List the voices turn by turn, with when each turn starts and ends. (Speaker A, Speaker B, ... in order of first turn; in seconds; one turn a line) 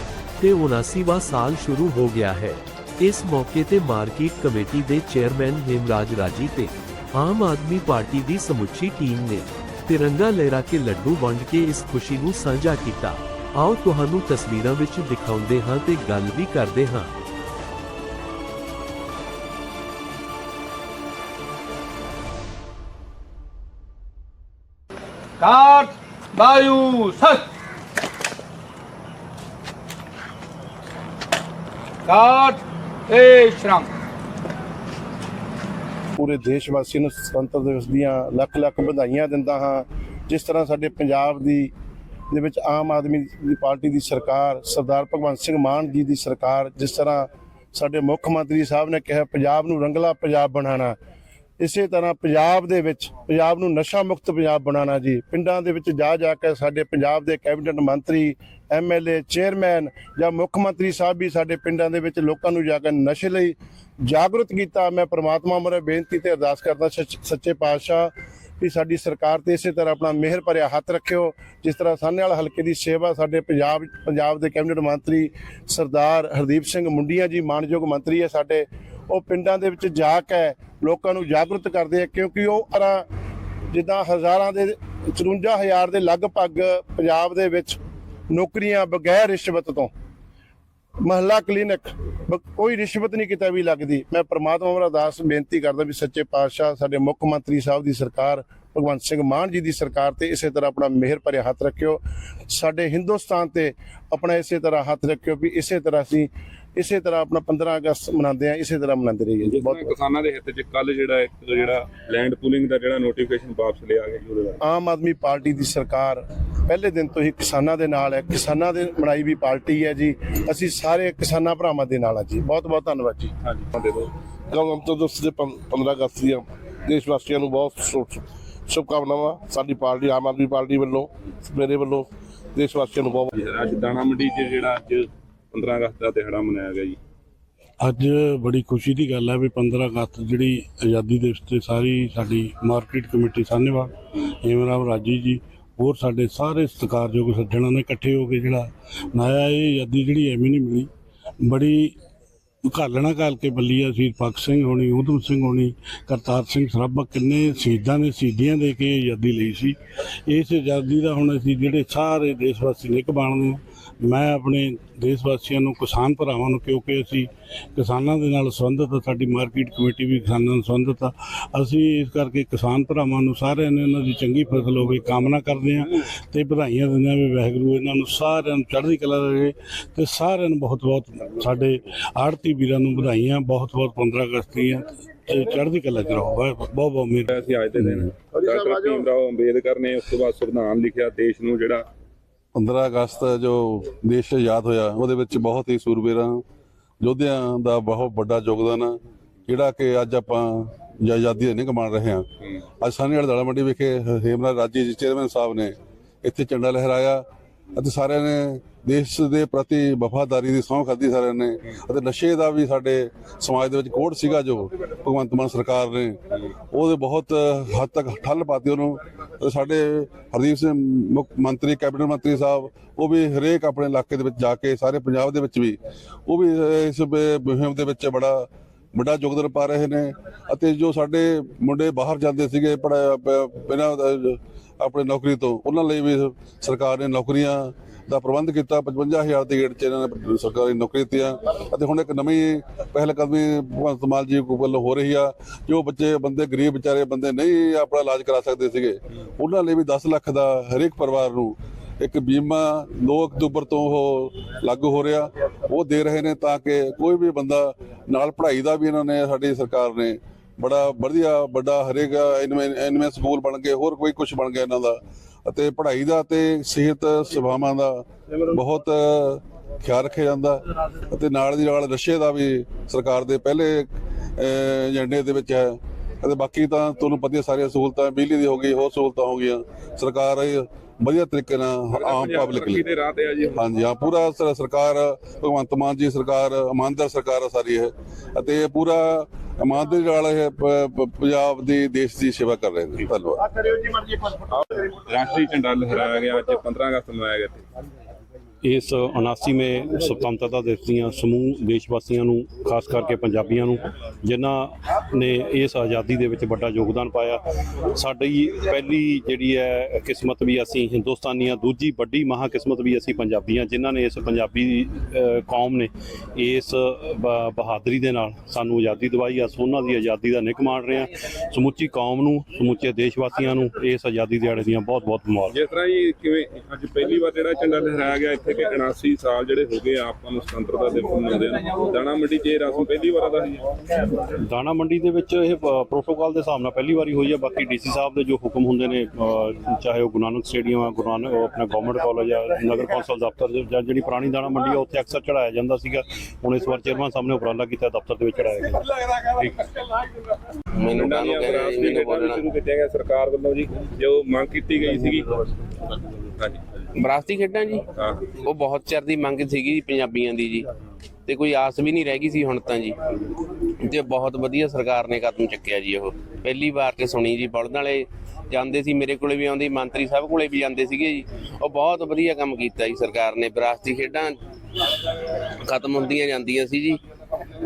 Speaker A: 0.4-17.1
Speaker B: 25.4-27.5
Speaker B: 32.1-33.9
Speaker C: 36.2-41.7
Speaker C: 42.3-51.0
Speaker C: 51.6-63.5
Speaker C: 64.1-83.0
Speaker C: 83.7-87.8
Speaker C: 88.3-89.9
Speaker C: 91.0-109.9
Speaker D: 109.4-114.6
Speaker C: 114.6-123.3
Speaker D: 123.4-124.1
Speaker E: 124.5-133.4
Speaker D: 133.4-137.0
Speaker F: 137.8-150.9
Speaker F: 151.4-151.9
Speaker F: 152.7-187.3
Speaker D: 187.3-191.9
Speaker E: 188.3-189.1
Speaker G: 192.6-196.4
Speaker G: 197.0-199.0
Speaker G: 199.5-202.2
Speaker G: 202.8-207.2
Speaker G: 207.8-216.2
Speaker G: 216.7-282.9
Speaker D: 281.9-283.6
Speaker G: 283.6-293.4
Speaker D: 295.0-297.6
Speaker H: 298.6-325.6
Speaker D: 325.5-333.6
Speaker H: 334.4-348.9
Speaker D: 349.3-349.6
Speaker I: 350.8-352.4
Speaker D: 351.0-355.4
Speaker D: 356.4-356.6
Speaker I: 356.9-360.7
Speaker I: 361.3-363.0
Speaker I: 363.8-374.4
Speaker I: 375.6-377.0